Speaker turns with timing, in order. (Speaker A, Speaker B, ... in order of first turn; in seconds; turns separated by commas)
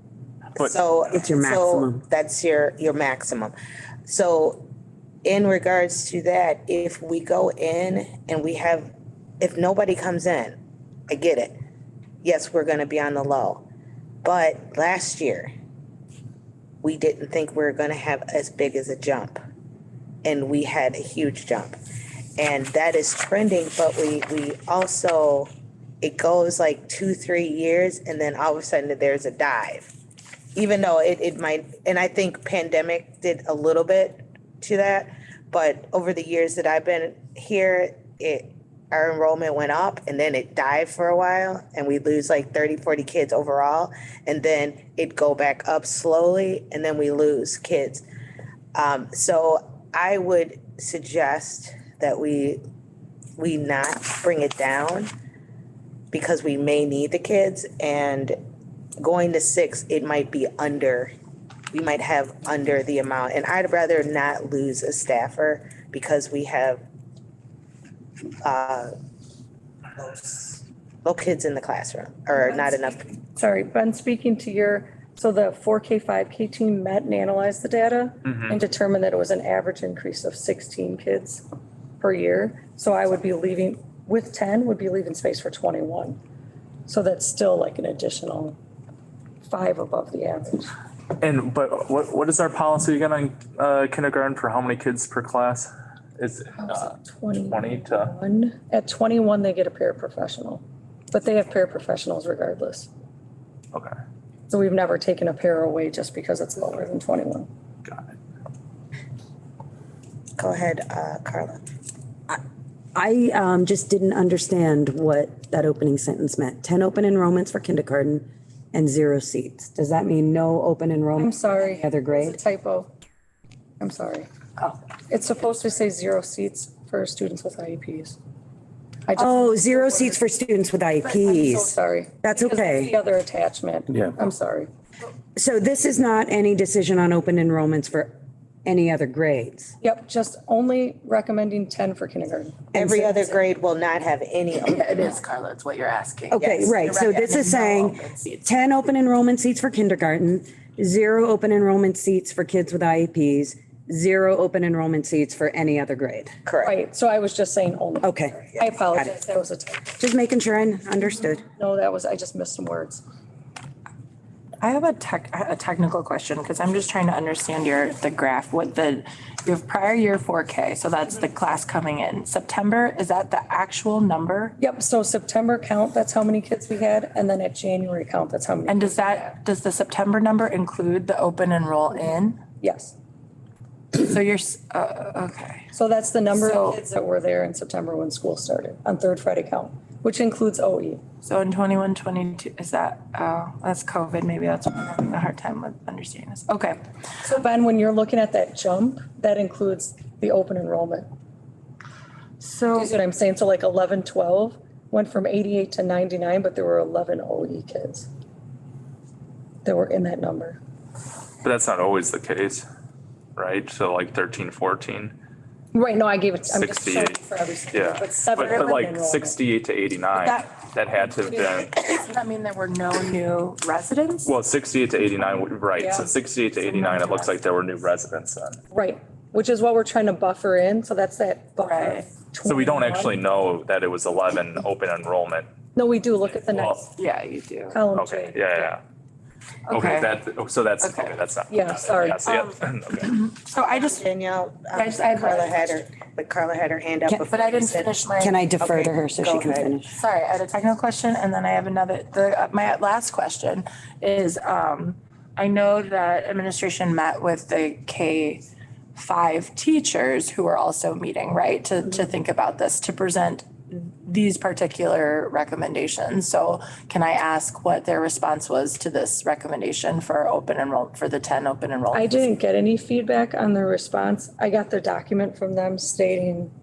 Speaker A: 0.6-3.5, Speaker B: 1.1-2.0, Speaker A: 4.1-4.7, Speaker A: 5.2-10.6, Speaker A: 11.1-11.6, Speaker A: 12.2-13.7, Speaker A: 14.2-15.5, Speaker A: 16.8-19.4, Speaker A: 20.2-21.8, Speaker A: 22.4-25.5, Speaker A: 26.0-29.9, Speaker A: 30.6-48.0, Speaker A: 48.8-52.6, Speaker A: 53.4-55.1, Speaker A: 56.1-58.4, Speaker A: 59.0-61.1, Speaker A: 61.7-66.8, Speaker A: 68.4-68.9, Speaker A: 70.0-73.1, Speaker C: 73.3-81.4, Speaker D: 78.2-78.5, Speaker C: 82.0-86.2, Speaker C: 86.9-88.6, Speaker C: 89.5-90.7, Speaker D: 91.2-96.9, Speaker C: 96.5-102.9, Speaker D: 97.5-98.1, Speaker C: 104.5-107.5, Speaker A: 110.4-111.6, Speaker B: 113.0-122.4, Speaker C: 121.2-122.9, Speaker C: 123.8-124.3, Speaker C: 125.1-128.2, Speaker C: 129.1-130.2, Speaker B: 129.1-132.9, Speaker C: 131.0-134.7, Speaker B: 135.3-138.1, Speaker B: 138.7-139.8, Speaker C: 139.8-143.4, Speaker A: 142.8-145.1, Speaker E: 144.6-148.4, Speaker B: 146.3-156.4, Speaker A: 156.4-156.8, Speaker C: 156.6-159.9, Speaker B: 158.0-159.1, Speaker B: 160.0-161.4, Speaker C: 161.4-163.0, Speaker E: 164.6-174.6, Speaker C: 174.6-179.3, Speaker E: 178.7-182.4, Speaker C: 182.6-182.9, Speaker E: 183.9-185.7, Speaker C: 185.7-191.0, Speaker E: 186.3-186.8, Speaker E: 191.2-196.8, Speaker C: 197.2-201.1, Speaker E: 202.4-202.9, Speaker C: 202.7-208.1, Speaker C: 209.6-210.6, Speaker D: 211.4-212.7, Speaker D: 213.4-215.2, Speaker C: 215.7-219.4, Speaker D: 216.5-217.2, Speaker D: 217.7-221.7, Speaker E: 220.1-224.3, Speaker D: 224.2-228.6, Speaker C: 225.8-226.1, Speaker E: 226.6-227.3, Speaker C: 228.7-233.2, Speaker E: 231.6-232.1, Speaker D: 232.4-235.5, Speaker C: 235.8-237.0, Speaker D: 236.5-236.8, Speaker E: 236.9-237.8, Speaker C: 237.7-238.8, Speaker D: 237.9-238.8, Speaker E: 239.7-240.2, Speaker D: 239.7-243.2, Speaker E: 240.8-241.2, Speaker C: 241.5-242.3, Speaker E: 242.2-244.0, Speaker A: 243.5-247.9, Speaker E: 244.7-245.7, Speaker E: 247.3-258.4, Speaker B: 248.2-249.9, Speaker A: 248.6-249.7, Speaker E: 259.0-272.3, Speaker C: 271.9-276.5